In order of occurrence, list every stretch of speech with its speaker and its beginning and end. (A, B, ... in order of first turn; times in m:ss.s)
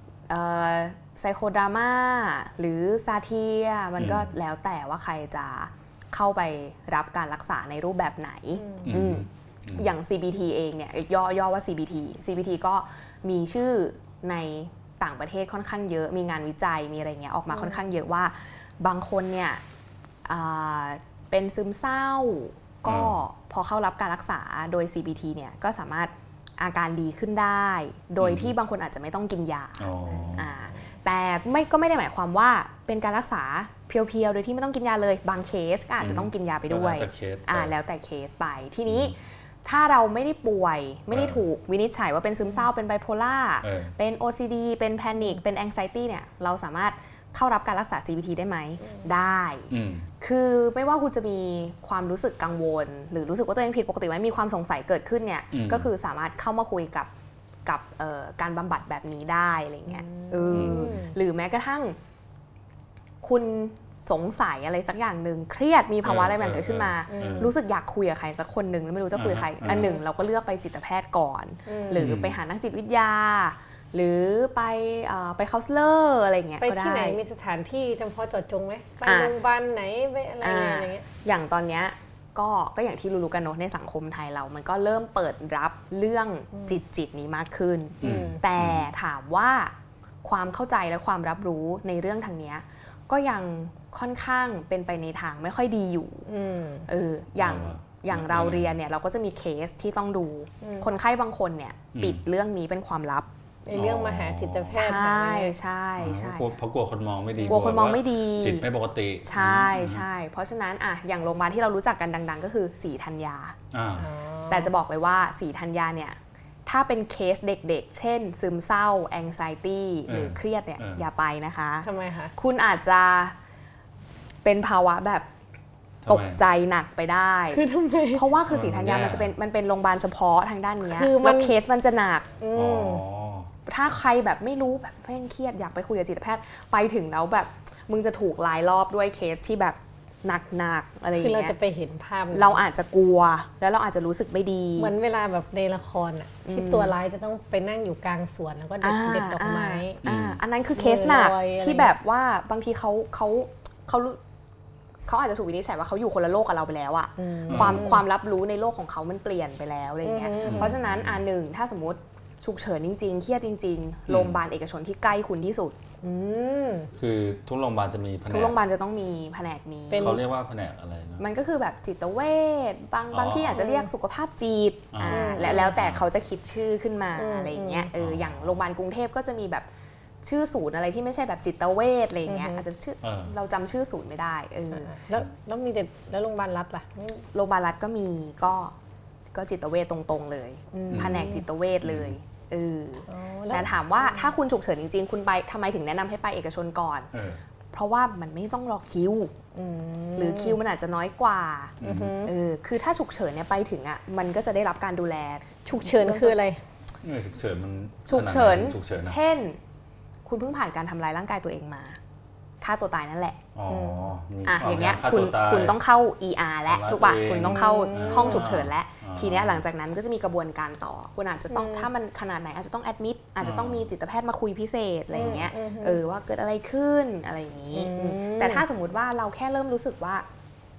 0:00.3-0:19.6 A
0:04.0-0:04.3 B
0:08.6-0:08.9 C
0:08.8-0:09.9 B
0:17.5-0:17.9 C
0:20.2-0:57.1 A
0:22.8-0:23.2 B
0:28.2-0:28.5 B
0:29.8-0:30.5 B
0:36.0-0:37.7 B
0:38.9-0:39.2 B
0:41.1-0:41.4 B
0:43.6-0:43.9 B
0:49.7-0:50.0 B
0:55.5-0:55.9 B
0:57.7-1:02.0 A
0:59.9-1:01.2 C
1:00.5-1:01.0 B
1:03.2-1:17.2 A
1:06.0-1:07.5 B
1:07.1-1:07.5 C
1:09.2-1:09.9 B
1:09.7-1:09.9 C
1:11.7-1:12.0 C
1:11.9-1:12.4 B
1:16.6-1:21.1 C
1:19.0-1:19.3 A
1:20.4-1:29.7 A
1:28.0-1:28.4 C
1:28.0-1:28.9 B
1:30.2-1:36.3 A
1:36.3-1:36.9 C
1:36.9-1:43.3 A
1:37.4-1:38.8 B
1:40.6-1:40.9 C
1:41.9-1:42.2 B
1:43.6-1:45.6 C
1:43.7-1:44.8 B
1:44.7-1:46.5 A
1:46.0-1:50.0 B
1:47.4-1:48.7 A
1:49.2-1:53.6 A
1:53.7-1:54.1 B
1:54.0-1:54.7 C
1:54.5-2:03.4 A
2:00.1-2:01.0 B
2:01.8-2:02.3 C
2:04.4-2:05.3 A
2:06.0-2:06.4 B
2:06.1-2:07.6 A
2:07.5-2:08.3 C
2:08.1-2:12.3 A
2:08.5-2:09.3 B
2:10.8-2:11.6 C
2:12.4-2:13.0 C
2:12.5-2:13.5 B
2:13.7-2:21.5 A
2:21.1-2:22.6 C
2:22.3-2:24.9 A
2:24.8-2:30.0 C
2:26.4-2:26.9 A
2:28.8-2:34.2 A
2:30.0-2:30.4 B
2:30.8-2:31.9 C
2:35.1-2:45.8 A
2:37.2-2:38.0 C
2:37.5-2:37.9 B
2:40.0-2:40.8 C
2:40.4-2:41.2 B
2:44.1-2:44.4 B
2:46.0-2:46.9 C
2:46.9-2:48.6 B
2:48.3-2:50.2 A
2:49.9-2:50.2 C
2:49.9-2:51.2 B
2:51.2-2:59.7 A
2:53.1-2:53.6 B
2:53.5-2:53.9 C
2:54.9-2:56.0 B
2:55.1-2:55.8 C
2:57.2-2:57.9 C
2:58.0-2:58.6 B
3:00.2-3:04.9 A
3:02.3-3:02.6 C
3:03.0-3:03.3 B
3:04.7-3:07.3 C
3:07.3-3:08.7 A
3:09.3-3:17.1 A
3:10.7-3:11.5 C
3:10.9-3:11.3 B
3:11.8-3:12.2 B
3:13.1-3:14.3 C
3:17.1-3:17.4 B
3:17.7-3:19.3 A
3:19.6-3:20.6 C
3:20.2-3:26.4 A
3:21.8-3:22.2 B
3:21.8-3:22.3 C
3:25.7-3:26.6 C
3:27.0-3:29.2 B
3:28.1-3:29.6 A
3:30.3-3:32.0 A
3:32.6-3:33.4 A
3:33.6-3:35.8 B
3:33.7-3:34.1 C
3:34.5-3:50.3 A
3:36.7-3:39.6 B
3:37.4-3:38.5 C
3:41.5-3:41.9 C
3:43.4-3:43.9 B
3:45.1-3:46.0 C
3:47.7-3:48.6 C